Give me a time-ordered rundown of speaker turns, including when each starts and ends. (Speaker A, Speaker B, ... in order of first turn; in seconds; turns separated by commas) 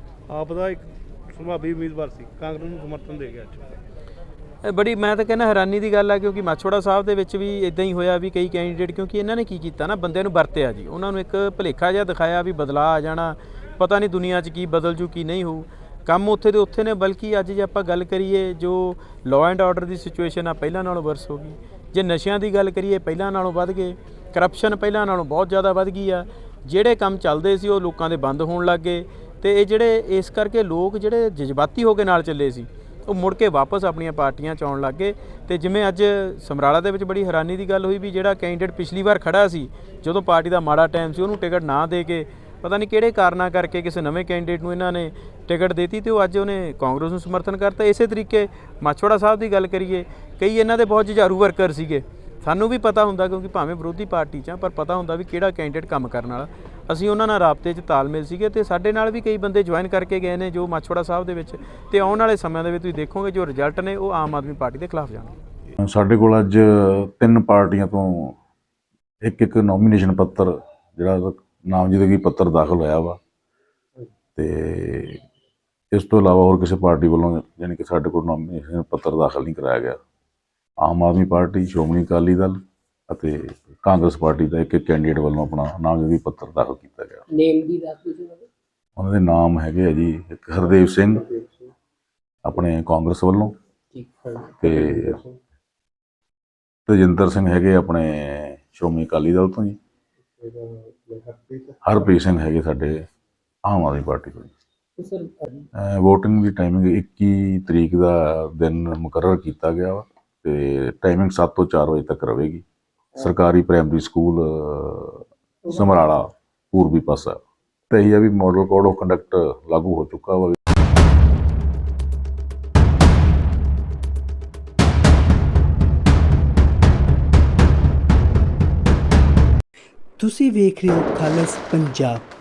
Speaker A: 0.3-3.8, Speaker B: 4.6-65.4, Speaker C: 65.8-68.3, Speaker C: 69.2-73.2, Speaker C: 74.4-75.2, Speaker C: 75.9-80.0, Speaker C: 80.8-82.6, Speaker C: 83.1-87.2, Speaker D: 87.3-88.4, Speaker C: 89.0-91.2, Speaker C: 92.5-93.5, Speaker D: 93.9-94.8, Speaker C: 94.6-95.1, Speaker C: 96.9-99.8, Speaker C: 101.8-103.0, Speaker C: 103.7-104.5, Speaker D: 105.0-105.3, Speaker C: 105.8-112.6, Speaker C: 113.2-117.4, Speaker C: 117.9-120.6, Speaker E: 130.2-132.2